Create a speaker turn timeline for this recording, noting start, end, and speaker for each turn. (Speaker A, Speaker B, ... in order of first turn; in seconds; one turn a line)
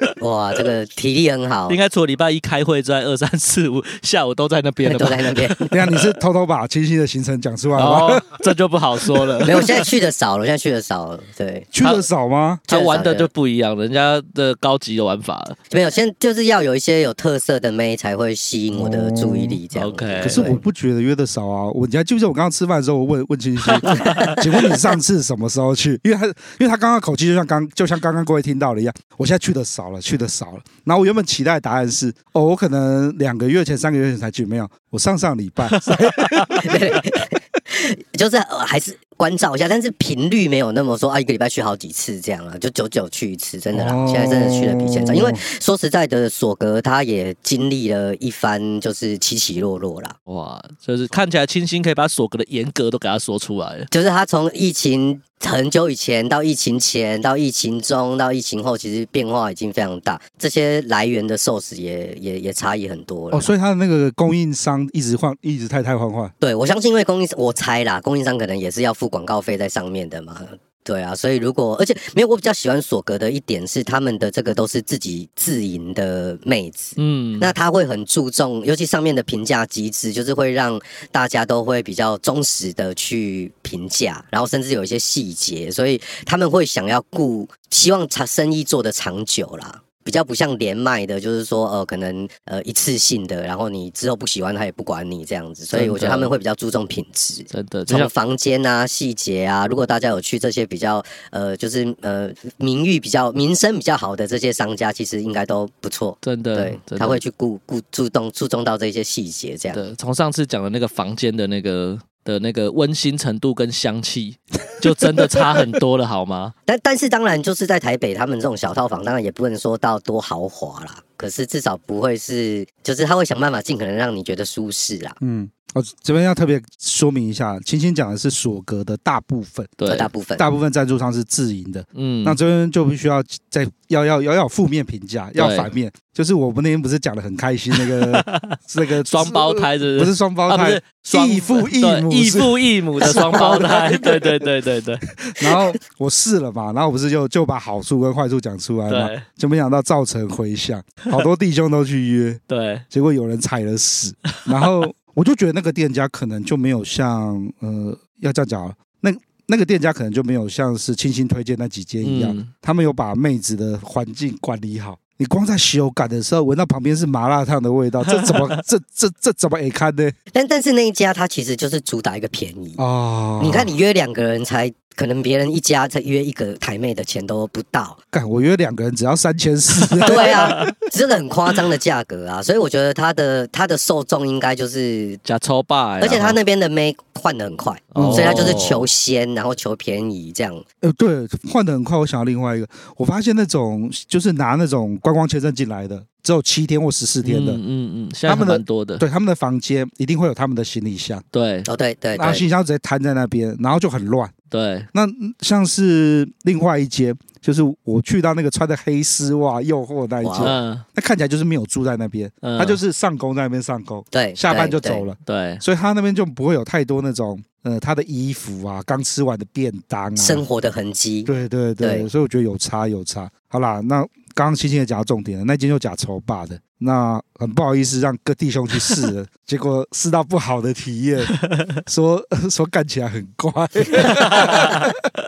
Speaker A: 0.2-1.8
Speaker B: 1.7-6.0
Speaker A: 4.8-5.7
Speaker C: 5.7-8.2
Speaker B: 7.7-9.6
Speaker A: 9.4-11.7
Speaker C: 11.7-12.6
Speaker B: 11.8-12.1
Speaker B: 12.7-15.6
Speaker A: 12.7-13.3
Speaker A: 15.7-20.6
Speaker C: 18.7-19.6
Speaker B: 19.7-20.5
Speaker C: 20.2-36.6
Speaker A: 36.5-50.1
Speaker C: 43.7-45.4
Speaker B: 50.3-53.9
Speaker A: 53.9-63.5
Speaker C: 63.3-66.3
Speaker A: 66.4-109.8
Speaker B: 77.0-77.5
Speaker B: 95.7-96.3
Speaker B: 97.5-98.1
Speaker B: 106.2-107.2
Speaker B: 109.7-116.5
Speaker A: 116.7-125.2
Speaker C: 125.2-129.8
Speaker B: 129.8-130.1
Speaker A: 129.9-130.4
Speaker C: 130.4-144.5
Speaker B: 131.9-132.4
Speaker B: 135.3-135.7
Speaker B: 138.0-138.5
Speaker B: 139.0-145.6
Speaker C: 145.2-170.2
Speaker B: 148.9-149.2
Speaker B: 152.5-152.8
Speaker B: 154.6-154.8
Speaker B: 162.0-162.5
Speaker A: 170.3-172.8
Speaker C: 172.8-173.7
Speaker A: 173.4-178.0
Speaker C: 178.1-180.7
Speaker B: 179.9-180.7
Speaker A: 180.1-185.2
Speaker B: 185.2-186.4
Speaker A: 186.0-190.6
Speaker B: 187.9-188.9
Speaker C: 187.9-188.6
Speaker C: 190.8-197.6
Speaker B: 197.2-199.0
Speaker C: 198.3-201.2
Speaker B: 201.3-201.7
Speaker A: 201.7-202.4
Speaker C: 202.1-204.3
Speaker B: 204.5-204.9
Speaker C: 204.9-220.4
Speaker A: 210.2-210.6
Speaker B: 210.4-210.8
Speaker B: 212.4-212.8
Speaker A: 214.1-215.1
Speaker B: 215.2-215.6
Speaker A: 220.2-222.1
Speaker C: 221.2-234.8
Speaker B: 234.2-234.8